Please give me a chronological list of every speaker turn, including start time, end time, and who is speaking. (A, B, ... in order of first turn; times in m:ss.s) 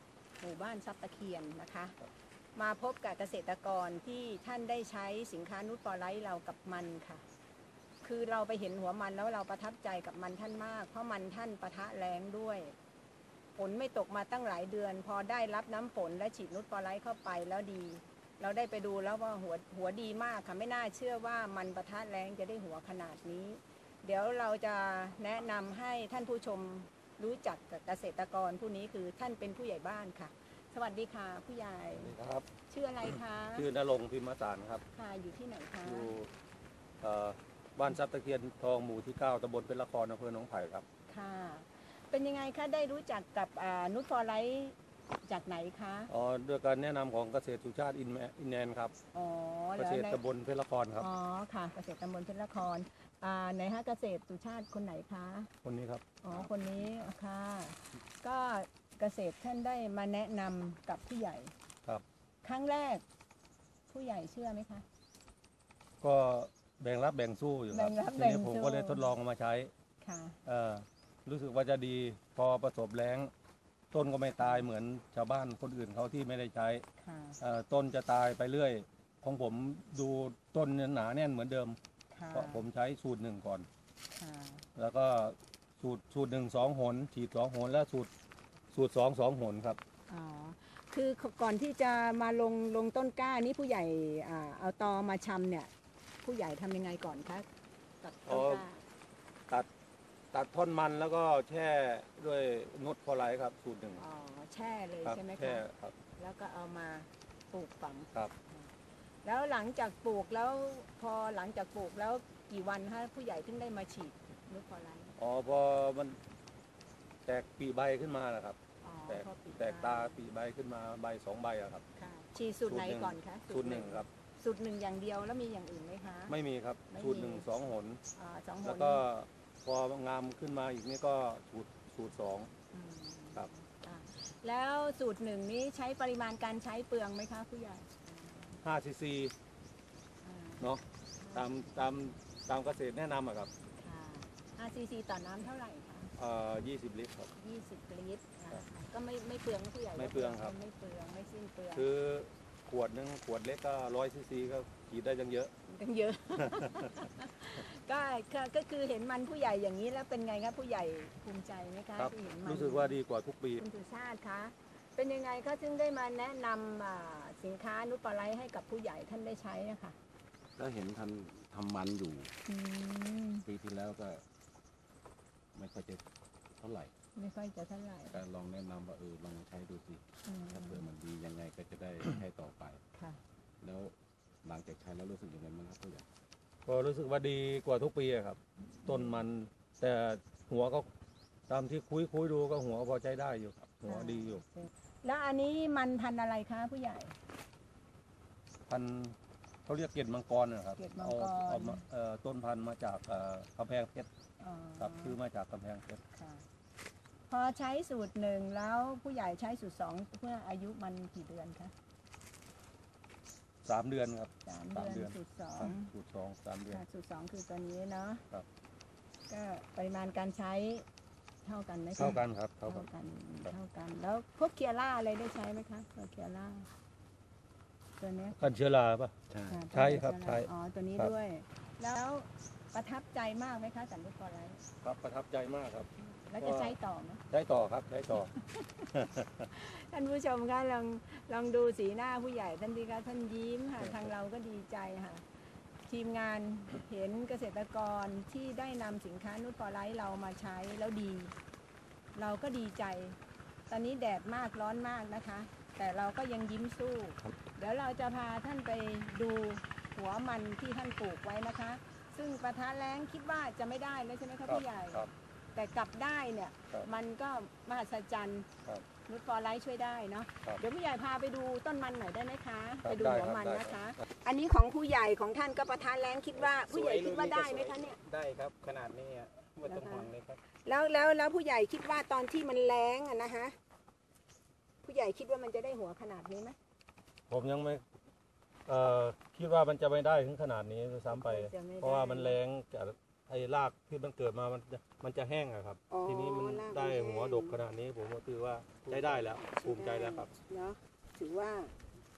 0:00.4-0:02.0 A
0:02.6-0:07.2 A
0:08.0-0:12.7 A
0:13.6-0:32.1 A
0:32.0-0:32.5 B
0:32.7-0:33.7 A
0:33.6-0:34.8 B
0:34.9-0:36.1 A
0:35.8-0:36.3 B
0:37.0-0:40.8 B
0:41.1-0:46.1 A
0:46.1-0:49.0 B
0:49.1-0:50.2 A
0:49.8-0:51.1 B
0:51.0-0:55.5 A
0:55.6-0:56.5 B
0:56.2-1:01.5 A
1:02.4-1:03.0 A
1:03.9-1:04.8 A
1:06.0-1:09.7 B
1:07.7-1:09.1 A
1:10.0-1:10.4 A
1:10.4-1:13.3 B
1:13.9-1:16.8 B
1:14.4-1:14.7 A
1:17.0-1:17.4 A
1:17.4-1:21.8 B
1:22.1-1:22.7 A
1:22.3-1:23.7 B
1:24.1-1:24.6 A
1:24.8-1:28.1 B
1:28.7-1:29.8 B
1:30.1-1:35.7 A
1:36.2-1:37.5 A
1:38.0-1:38.8 A
1:38.3-1:38.6 B
1:40.3-1:44.0 B
1:44.0-1:45.6 A
1:45.0-1:45.9 B
1:46.2-1:48.7 A
1:49.2-1:55.2 A
1:55.2-1:56.2 B
1:57.3-2:01.8 B
1:58.8-2:00.2 A
2:02.0-2:06.3 A
2:02.7-2:04.1 B
2:06.3-2:08.0 B
2:06.9-2:07.5 A
2:08.1-2:09.0 A
2:08.6-2:12.5 B
2:12.7-2:18.6 A
2:18.6-2:19.3 B
2:20.2-2:21.7 A
2:20.6-2:23.5 B
2:23.8-2:26.1 A
2:26.2-2:27.3 B
2:27.3-2:31.9 A
2:30.0-2:30.6 B
2:31.7-2:35.5 B
2:35.6-2:43.0 A
2:36.4-2:37.1 B
2:42.0-2:43.6 B
2:43.6-2:50.0 A
2:50.6-2:52.3 C
2:52.5-2:53.5 A
2:53.5-2:54.2 C
2:55.6-2:56.0 C
2:56.6-2:56.9 C
2:57.2-2:58.2 A
2:58.1-3:02.8 C
3:00.3-3:00.8 A
3:02.9-3:03.2 A
3:03.6-3:06.0 C
3:06.7-3:10.9 B
3:08.9-3:09.2 A
3:11.5-3:14.4 B
3:13.8-3:17.2 A
3:18.7-3:24.1 B
3:20.8-3:21.8 A
3:24.4-3:25.2 A
3:24.8-3:26.0 B
3:26.1-3:26.4 A
3:27.3-3:31.7 A
3:33.6-3:36.8 B
3:34.4-3:35.9 A
3:36.7-3:38.2 A
3:39.3-3:40.8 A
3:41.4-3:46.7 A
3:42.0-3:42.9 B
3:48.0-3:48.4 A
3:48.4-3:49.2 B
3:49.3-3:49.6 C
3:49.5-3:54.6 A
3:49.7-3:51.1 B
3:54.8-3:56.8 B
3:56.1-3:57.2 A
3:57.3-3:58.4 B
3:58.2-3:58.9 A
3:58.9-3:59.5 B
3:59.5-4:05.3 A
4:03.8-4:04.1 B
4:05.9-4:11.4 A
4:12.2-4:13.2 A
4:13.7-4:28.5 A
4:24.5-4:25.1 B
4:29.0-4:38.0 A
4:32.8-4:33.9 B
4:36.4-4:40.4 D
4:39.6-4:43.6 A
4:44.8-4:46.6 A
4:47.3-4:47.8 B
4:48.7-5:00.3 B
4:51.1-4:52.4 A
4:55.9-4:57.6 A
4:59.2-5:01.7 A